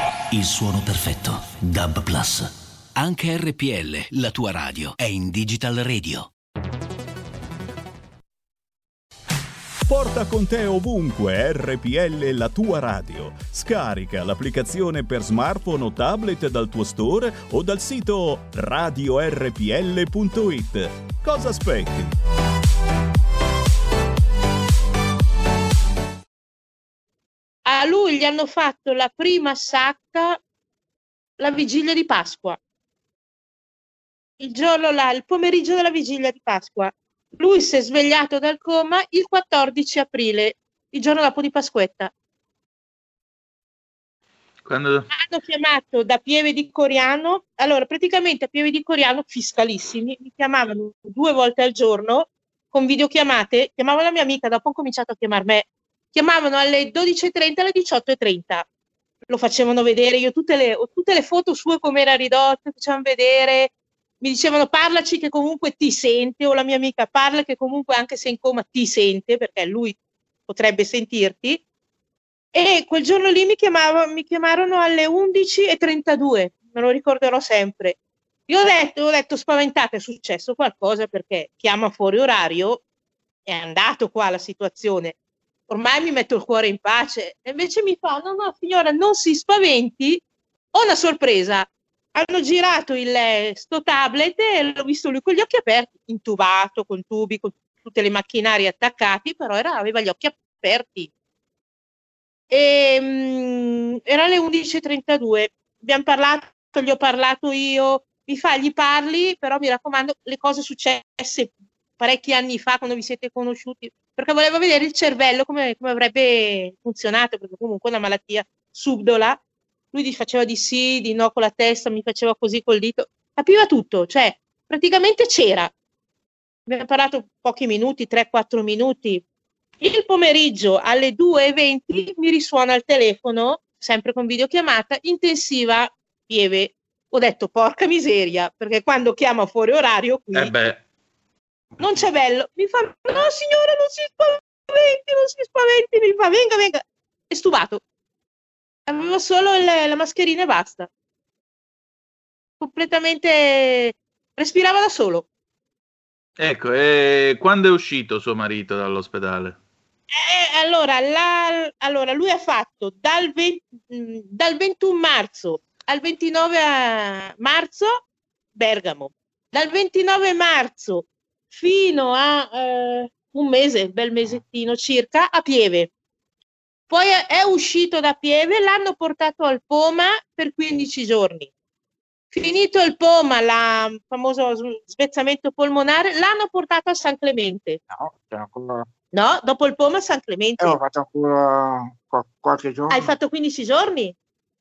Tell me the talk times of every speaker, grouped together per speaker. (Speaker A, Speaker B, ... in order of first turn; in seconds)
Speaker A: 0.3-6.3
Speaker B: 9.9-22.1
Speaker C: 27.7-30.4, 31.4-32.6, 34.4-42.1, 45.1-58.6, 59.3-70.0, 70.5-71.6, 72.5-78.0, 78.5-82.8, 83.5-85.2, 85.7-90.2, 90.7-101.1, 102.5-119.4, 119.9-125.7, 126.7-129.2, 129.8-140.5, 141.8-147.8, 148.9-150.9, 152.6-155.2, 160.1-168.0, 168.6-175.9, 176.9-181.5, 182.3-187.8, 189.1-190.8, 192.9-194.1
Speaker D: 44.6-45.1, 140.3-140.8, 141.8-142.1, 156.4-159.6
Speaker E: 187.9-188.9, 190.6-193.2